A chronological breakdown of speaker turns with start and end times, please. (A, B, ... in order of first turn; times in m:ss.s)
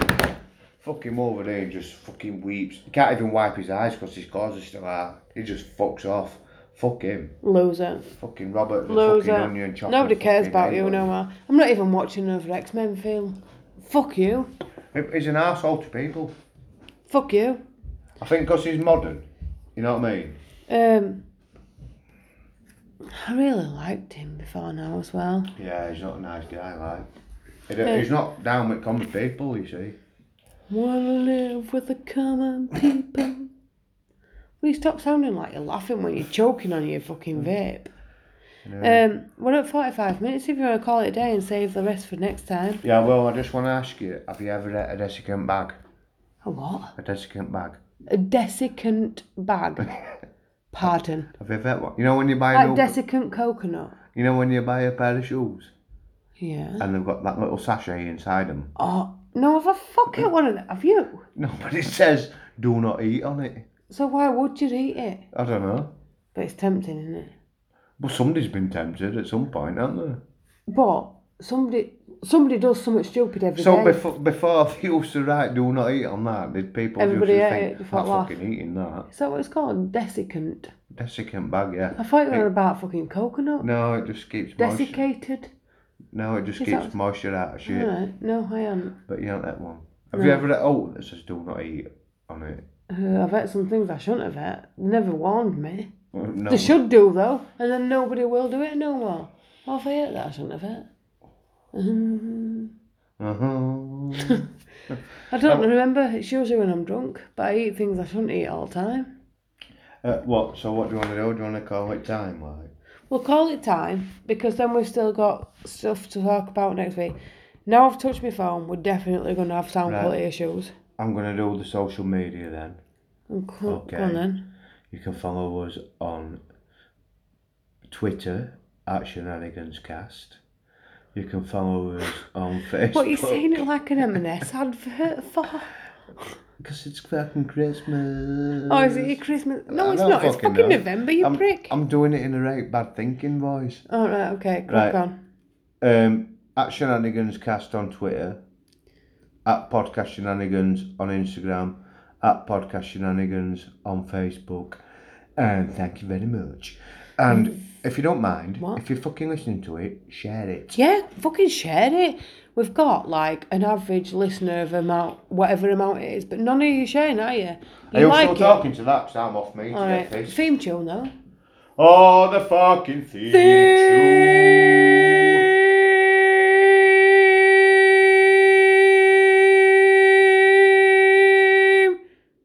0:00.8-0:07.4 A
0:07.4-0:08.1 B
0:08.1-0:11.1 A
0:08.9-0:14.5 B
0:14.9-0:16.3 A
0:17.1-0:17.6 B
0:18.2-0:20.4 A
0:20.7-0:21.2 B
0:23.0-0:25.5 B
0:25.6-0:27.1 A
0:27.7-0:30.0 A
0:30.7-0:33.5 B
0:34.6-0:37.9 B
0:38.6-0:39.0 A
0:38.8-0:42.8 B
0:42.8-0:45.8 A
0:46.4-0:46.9 B
0:47.0-0:47.8 A
0:48.1-0:49.9 B
0:50.7-0:51.3 B
0:51.4-0:53.0 A
0:52.5-0:54.0 B
0:54.1-0:55.7 A
0:56.4-0:56.8 B
0:56.8-0:58.7 A
0:58.8-1:01.2 B
1:01.3-1:03.7 A
1:03.9-1:05.2 B
1:05.3-1:05.9 A
1:06.3-1:07.3 B
1:08.0-1:10.2 A
1:10.7-1:14.0 B
1:13.6-1:19.1 A
1:17.0-1:18.3 B
1:19.1-1:20.7 B
1:20.9-1:22.5 A
1:21.9-1:23.7 B
1:23.6-1:25.0 A
1:24.6-1:25.5 B
1:26.1-1:27.9 A
1:26.6-1:26.9 B
1:27.6-1:29.0 B
1:29.1-1:32.6 A
1:30.1-1:30.4 B
1:32.9-1:35.9 B
1:36.1-1:36.8 A
1:36.5-1:40.9 B
1:41.7-1:42.7 B
1:43.2-1:45.7 A
1:45.3-1:49.1 B
1:50.0-1:52.7 A
1:53.1-2:00.7 B
1:59.8-2:00.2 A
2:01.0-2:02.8 A
2:03.3-2:04.4 B
2:03.6-2:04.2 A
2:04.9-2:06.4 A
2:07.9-2:10.4 A
2:11.1-2:14.2 A
2:12.9-2:15.7 B
2:16.6-2:19.2 A
2:18.7-2:21.7 B
2:19.7-2:23.8 A
2:23.9-2:25.2 B
2:24.7-2:25.0 A
2:25.8-2:28.4 A
2:29.4-2:34.8 A
2:35.4-2:40.8 A
2:37.3-2:37.6 B
2:40.7-2:48.6 B
2:47.9-2:50.5 A
2:49.7-2:51.1 B
2:51.8-2:55.5 A
2:53.3-3:01.9 B